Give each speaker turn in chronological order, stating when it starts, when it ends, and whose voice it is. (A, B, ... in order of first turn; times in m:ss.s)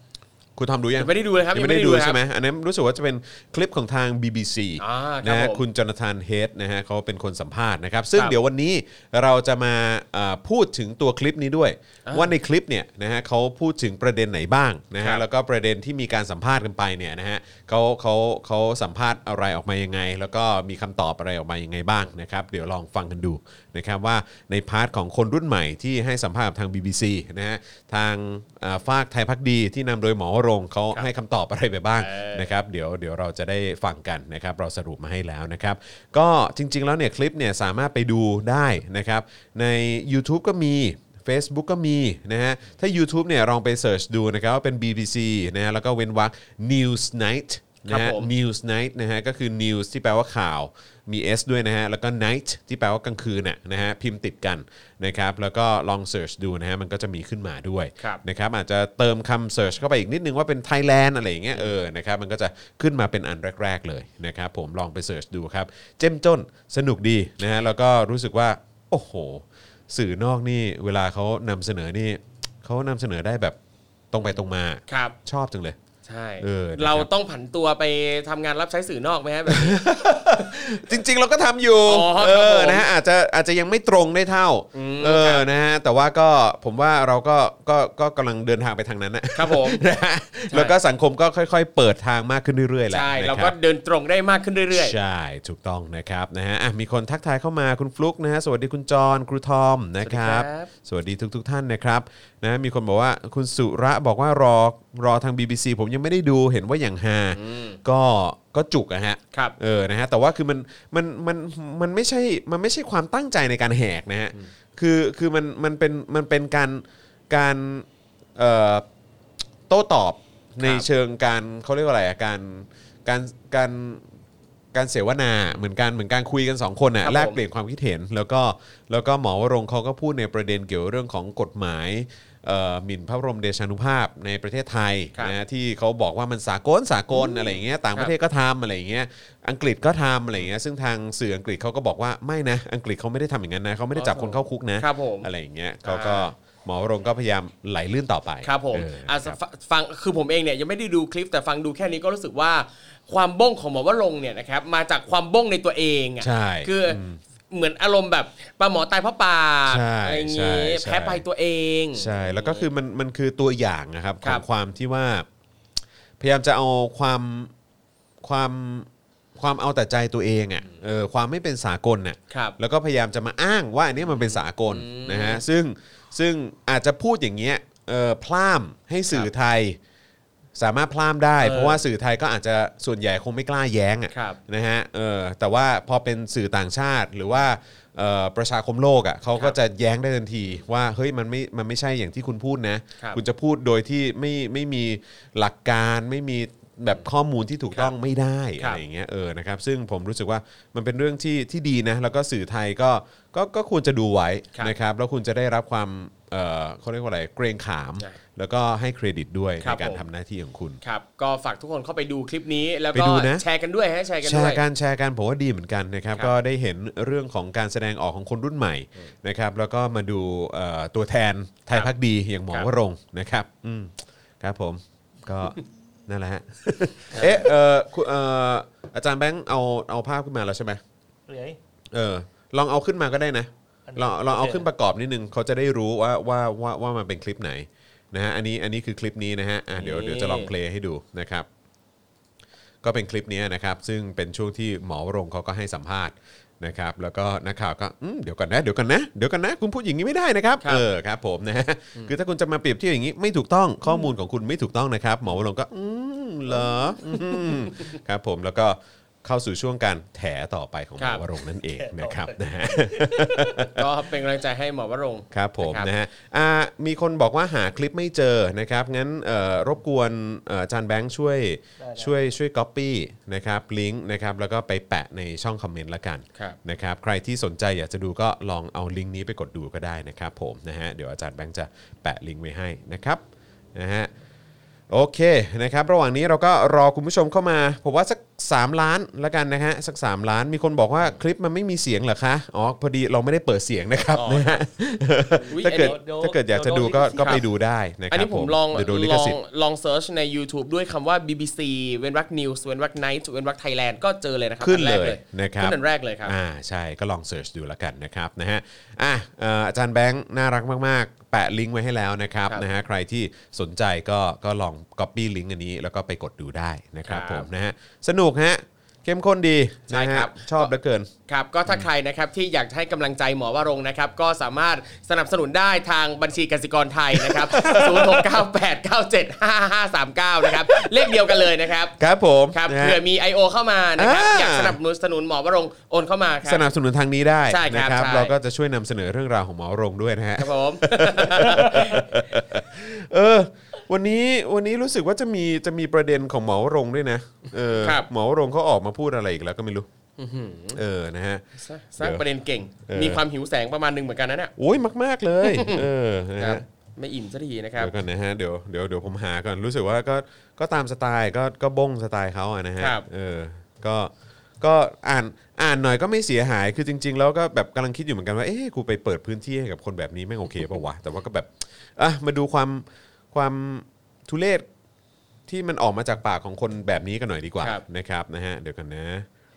0:00.6-1:13.6 A
0:01.0-0:02.2 B
0:04.8-0:05.6 B
0:12.1-0:12.3 B
0:15.0-0:15.2 B
0:32.0-0:32.6 B
0:47.9-0:48.3 B
1:14.1-1:15.8 A
1:14.9-1:15.2 B
1:16.0-1:19.8 B
1:16.4-1:17.1 A
1:19.5-1:33.5 A
1:21.9-1:22.8 B
1:24.7-1:25.5 B
1:29.3-1:29.8 B
1:30.5-1:30.8 B
1:32.9-1:35.0 B
1:34.7-1:58.8 A
1:40.0-1:40.7 B
1:47.3-1:47.8 B
1:59.7-2:04.1 A
2:00.6-2:00.9 B
2:04.7-2:29.4 A
2:07.0-2:07.4 B
2:17.1-2:18.1 B
2:23.9-2:25.3 B
2:25.8-2:26.2 B
2:28.4-2:37.0 B
2:36.2-2:37.2 A
2:37.5-2:42.7 B
2:39.7-2:41.2 A
2:41.9-2:45.3 A
2:46.2-2:47.5 A
2:48.2-2:59.8 A
2:52.3-2:52.6 B
2:54.0-2:55.4 B
3:00.6-3:30.8 A
3:01.4-3:01.8 B
3:04.1-3:04.4 B
3:29.6-3:30.0 B
3:30.8-3:34.6 B
3:32.9-3:33.4 A
3:34.2-3:50.8 A
3:47.1-3:47.5 B
3:51.3-3:51.6 C
3:51.9-4:01.5 A
3:53.9-3:54.6 C
3:59.7-4:00.5 B
4:02.8-4:23.9 A
4:17.3-4:18.0 B
4:21.0-4:21.2 B
4:21.7-4:23.3 C
4:23.4-4:25.9 B
4:25.3-4:43.2 A
4:31.8-4:32.2 C
4:43.7-4:44.1 A
4:44.9-4:59.4 A
4:54.1-4:54.6 B
4:55.4-4:55.9 B
4:55.6-4:57.4 C
4:57.2-4:57.4 B
4:58.1-5:06.3 B
5:04.6-5:21.1 A
5:17.1-5:17.5 B
5:19.9-5:20.7 B
5:21.3-5:32.0 B
5:27.1-5:28.4 A
5:30.4-5:31.2 A
5:32.0-5:33.0 A
5:32.5-5:36.7 B
5:34.0-5:34.8 A
5:36.4-5:49.9 A
5:37.5-5:38.3 B
5:40.4-5:42.2 B
5:47.7-5:48.1 B
5:50.2-5:50.8 B
5:50.7-5:51.4 A
5:51.6-5:54.5 B
5:52.9-5:53.2 A
5:54.6-5:56.6 A
5:55.4-5:55.8 B
5:56.4-5:57.9 B
5:57.8-6:14.7 A
6:02.8-6:03.1 B
6:15.5-6:19.3 A